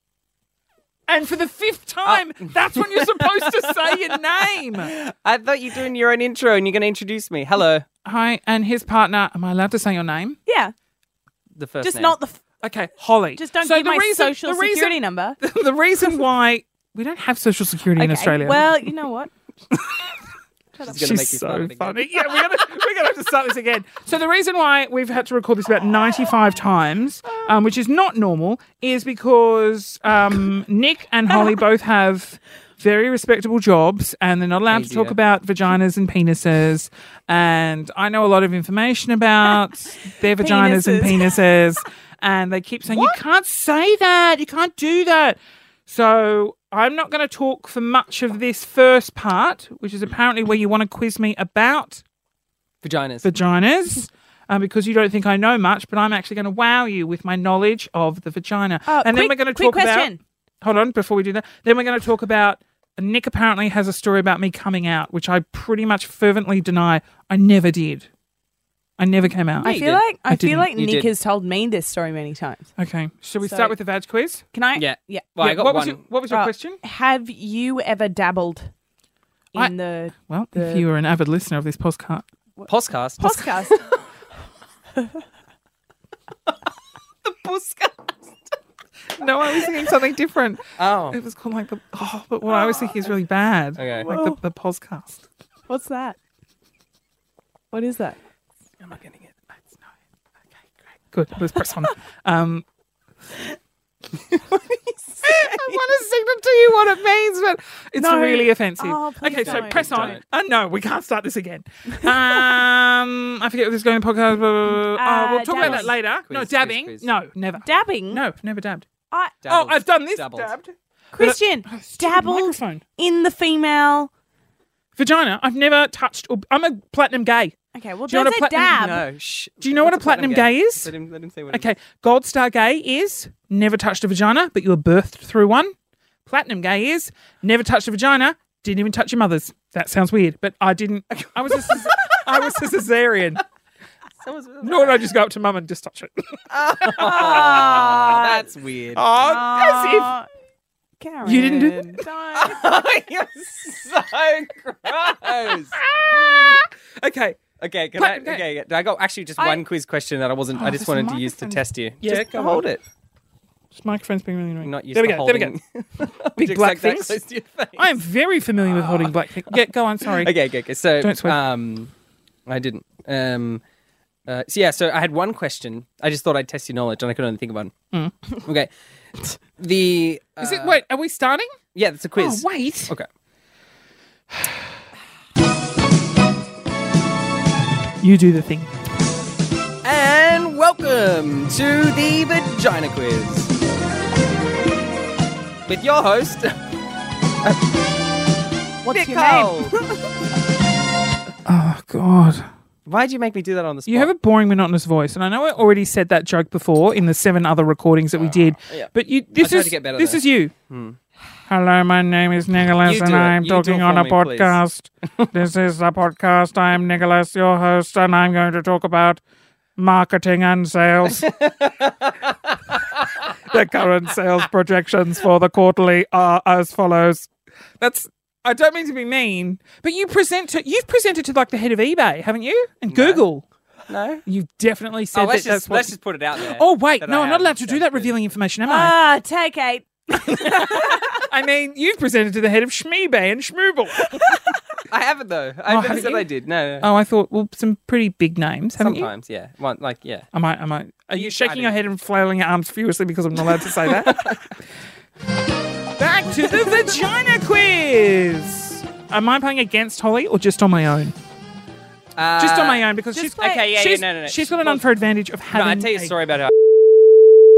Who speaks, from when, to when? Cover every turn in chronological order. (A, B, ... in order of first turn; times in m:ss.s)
0:01.1-0:04.9 A
0:02.0-0:07.9 B
0:08.0-0:10.4 A
0:10.5-0:10.7 C
0:11.6-0:12.2 B
0:11.8-0:12.4 C
0:12.6-0:18.7 A
0:13.4-0:15.4 C
0:18.0-0:19.3 C
0:19.7-0:20.1 A
0:20.8-0:22.1 B
0:20.9-0:52.0 A
0:34.7-0:35.2 B
0:40.4-0:41.4 C
0:52.8-0:53.3 B
0:53.2-1:08.1 A
0:58.9-1:00.2 C
1:09.0-1:09.7 A
1:09.6-1:12.7 C
1:09.6-1:10.0 B
1:10.3-1:10.7 A
1:10.7-1:11.1 B
1:12.8-1:14.4 A
1:13.4-1:13.8 C
1:14.5-1:15.3 C
1:14.8-1:16.0 B
1:15.4-1:16.8 A
1:16.3-1:18.7 C
1:19.5-1:20.8 C
1:19.6-1:22.3 A
1:22.7-1:24.0 B
1:23.2-1:24.0 C
1:27.2-1:28.5 B
1:29.1-1:35.3 A
1:30.8-1:31.2 B
1:32.5-1:33.1 C
1:33.8-1:34.1 B
1:34.1-1:34.4 C
1:35.7-1:36.2 C
1:37.7-1:38.2 C
1:38.8-1:39.3 B
1:41.1-1:42.7 A
1:44.1-1:45.8 B
1:45.2-1:58.9 A
1:48.0-1:50.2 C
1:49.3-1:50.2 B
1:52.0-1:52.4 C
1:54.8-1:55.9 C
1:55.6-1:57.1 B
1:57.6-1:58.2 C
1:59.1-1:59.4 C
1:59.4-2:00.5 B
1:59.5-2:02.8 A
2:01.1-2:04.1 C
2:05.0-2:07.6 A
2:07.7-2:09.0 C
2:08.1-2:08.8 A
2:08.7-2:11.7 B
2:09.6-2:10.9 A
2:11.5-2:15.7 A
2:16.3-2:23.4 A
2:21.2-2:22.1 B
2:24.2-2:25.1 B
2:24.6-2:28.0 A
2:26.5-2:29.0 B
2:27.0-2:28.5 C
2:29.0-2:30.1 A
2:29.2-2:30.3 C
2:31.0-2:32.6 C
2:31.2-2:32.0 A
2:32.3-2:36.6 B
2:35.7-2:37.4 A
2:37.6-2:42.8 B
2:38.0-2:38.4 A
2:39.4-2:39.6 C
2:40.6-2:42.7 A
2:43.7-2:45.6 A
2:44.6-2:48.0 B
2:46.4-2:47.2 A
2:47.8-2:50.4 A
2:48.6-2:51.9 B
2:51.0-2:51.4 A
2:52.5-2:53.6 B
2:54.3-2:57.7 B
2:58.4-2:58.7 B
2:59.6-3:00.8 B
3:00.4-3:01.6 A
3:01.7-3:03.1 B
3:02.2-3:02.9 A
3:08.0-3:08.7 A
3:09.8-3:13.5 B
3:15.7-3:16.6 B
3:17.4-3:17.7 B
3:18.8-3:20.0 C
3:18.9-3:19.8 B
3:21.5-3:22.5 A
3:22.9-3:24.1 B
3:23.9-3:30.5 A
3:28.1-3:31.0 B
3:31.5-3:39.2 A
3:32.8-3:34.6 B
3:39.8-3:41.3 A
3:41.1-3:43.3 B
3:43.4-3:47.3 A
3:47.8-3:53.5 A
3:52.9-3:53.2 B
3:53.9-3:54.2 B
3:54.3-3:58.9 A
3:55.1-3:58.1 B
3:58.7-4:01.2 C
4:00.1-4:04.4 A
4:04.9-4:06.9 B
4:05.7-4:06.3 A
4:06.8-4:09.1 A
4:08.8-4:10.3 B
4:10.3-4:14.5 A
4:11.1-4:11.8 B
4:13.8-4:14.5 B
4:16.0-4:21.2 A
4:22.2-4:24.8 B
4:22.4-4:26.1 A
4:23.2-4:23.6 C
4:25.5-4:26.5 B